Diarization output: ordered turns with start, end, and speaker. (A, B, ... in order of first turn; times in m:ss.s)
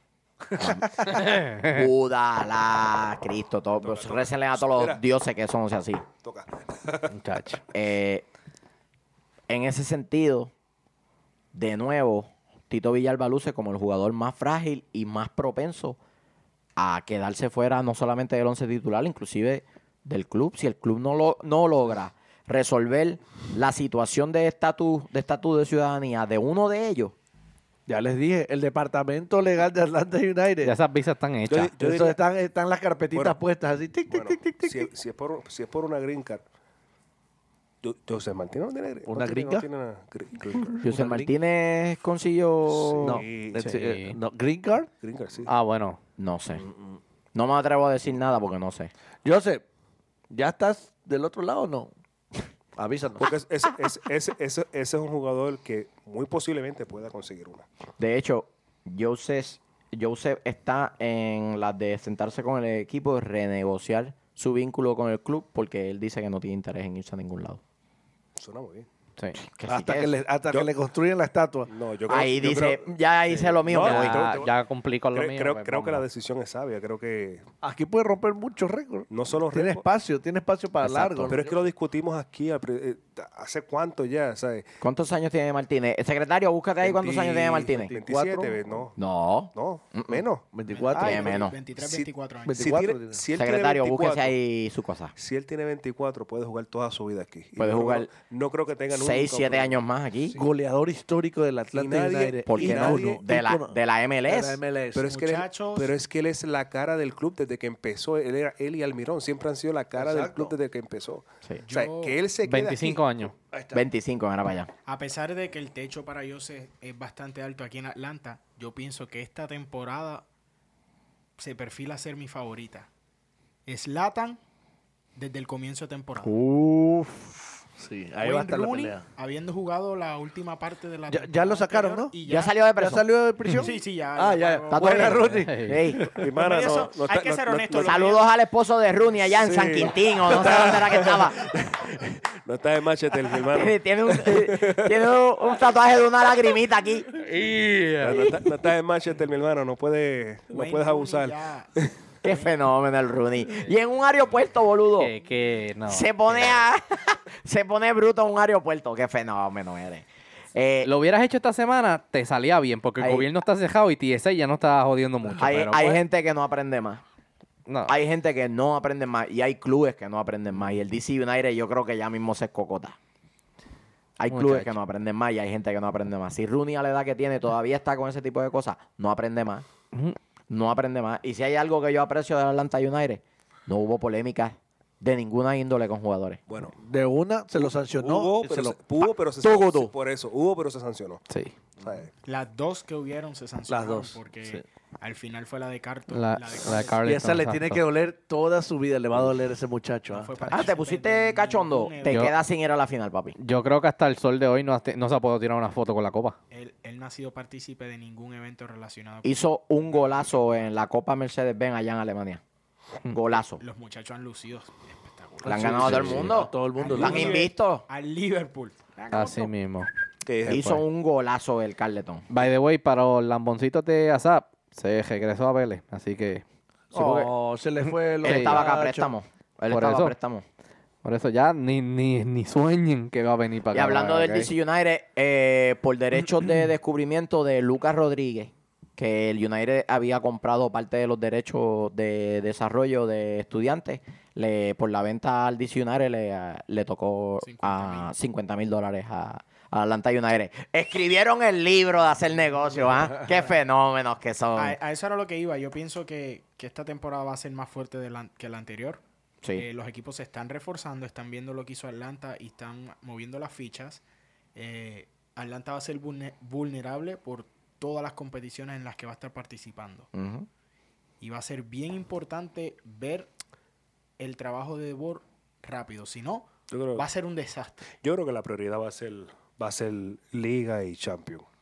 0:00.5-0:06.0 A
0:01.1-0:01.8 B
0:03.8-0:05.0 C
0:06.2-0:07.1 C
0:07.1-0:07.6 B
0:07.7-0:08.2 A
0:09.5-0:10.5 A
0:11.5-0:16.0 A
0:16.8-0:27.1 A
0:27.9-0:30.7 D
0:30.6-0:31.7 B
0:31.5-0:32.2 C
0:31.8-0:34.9 D
0:33.1-0:33.4 C
0:34.1-0:36.4 C
0:37.8-0:40.8 C
0:39.1-0:39.6 D
0:40.7-0:41.3 D
0:40.8-0:43.2 A
0:42.7-0:43.8 C
0:43.0-0:44.9 D
0:43.6-0:44.2 B
0:45.0-0:45.5 C
0:45.5-0:46.0 B
0:46.2-0:46.6 A
0:46.7-0:47.0 D
0:47.3-0:48.9 A
0:49.2-0:49.6 D
0:50.3-0:51.9 D
0:52.8-0:53.3 D
0:53.2-0:57.6 C
0:58.0-1:07.6 A
1:08.4-1:08.9 C
1:09.4-1:10.2 A
1:09.7-1:11.7 D
1:11.7-1:12.9 C
1:12.1-1:14.3 A
1:13.3-1:16.0 B
1:13.6-1:14.5 C
1:15.1-1:17.4 C
1:17.6-1:21.5 D
1:19.1-1:19.8 C
1:20.8-1:21.4 A
1:21.3-1:24.7 C
1:24.8-1:27.9 A
1:26.8-1:28.9 D
1:27.9-1:29.0 C
1:29.0-1:30.2 A
1:29.5-1:30.4 C
1:30.5-1:31.4 D
1:30.7-1:32.8 E
1:30.9-1:31.6 A
1:31.8-1:34.3 C
1:32.4-1:33.2 D
1:33.3-1:35.1 A
1:35.2-1:40.4 C
1:37.6-1:38.1 A
1:38.9-1:40.4 A
1:40.3-1:45.1 D
1:41.7-1:43.2 C
1:42.4-1:44.6 A
1:44.9-1:53.3 C
1:45.0-1:45.9 E
1:50.0-1:50.5 D
1:51.6-1:52.2 E
1:52.4-1:53.3 B
1:53.5-1:53.8 D
1:53.7-1:54.7 A
1:54.8-2:00.2 E
2:01.4-2:02.9 E
2:03.6-2:04.4 E
2:05.2-2:06.3 E
2:06.3-2:07.2 A
2:07.8-2:09.0 D
2:08.2-2:12.6 E
2:11.1-2:12.2 D
2:12.3-2:13.0 A
2:12.8-2:16.3 D
2:13.6-2:15.3 E
2:14.7-2:16.2 A
2:15.3-2:15.8 B
2:16.2-2:18.0 C
2:16.2-2:18.2 E
2:17.8-2:21.5 A
2:19.4-2:25.0 C
2:23.5-2:27.1 A
2:27.1-2:28.3 B
2:28.0-2:31.9 C
2:30.5-2:31.7 E
2:32.2-2:32.5 E
2:32.2-2:35.1 A
2:35.0-2:36.6 B
2:35.9-2:40.9 A
2:40.8-2:46.0 B
2:43.0-2:43.3 A
2:45.4-2:47.0 A
2:47.7-2:47.9 B
2:47.9-2:53.0 A
2:54.2-2:59.7 A
2:54.3-2:54.7 B
3:00.5-3:06.4 A
3:06.5-3:06.8 C
3:06.8-3:08.8 D
3:07.6-3:11.2 C
3:09.4-3:09.9 A
3:11.3-3:11.5 B
3:11.8-3:12.1 C
3:12.2-3:17.0 E
3:13.7-3:14.6 D
3:16.1-3:17.8 B
3:17.0-3:20.5 D
3:20.1-3:22.3 E
3:20.5-3:23.4 A
3:22.1-3:22.3 B
3:23.4-3:26.4 B
3:26.5-3:30.7 E
3:29.2-3:32.4 A
3:33.1-3:33.6 A
3:33.5-3:36.2 E
3:35.4-3:37.4 D
3:35.4-3:37.8 A
3:35.9-3:36.2 B
3:36.8-3:39.5 E
3:39.1-3:39.9 B
3:40.2-3:40.6 C
3:40.4-3:40.8 B
3:40.5-3:42.3 A
3:42.3-3:46.4 B
3:46.9-3:49.1 D
3:46.9-3:47.3 A
3:48.2-3:48.6 B
3:48.2-3:50.4 A
3:49.6-3:50.1 B
3:51.0-3:54.5 B
3:53.7-4:14.8 A
4:07.4-4:08.1 E
4:14.6-4:19.0 E
4:19.6-4:24.0 E
4:24.5-4:30.1 E
4:30.1-4:30.5 A
4:31.2-4:33.3 E
4:34.2-4:37.9 E
4:36.7-4:37.0 C
4:38.0-4:41.4 C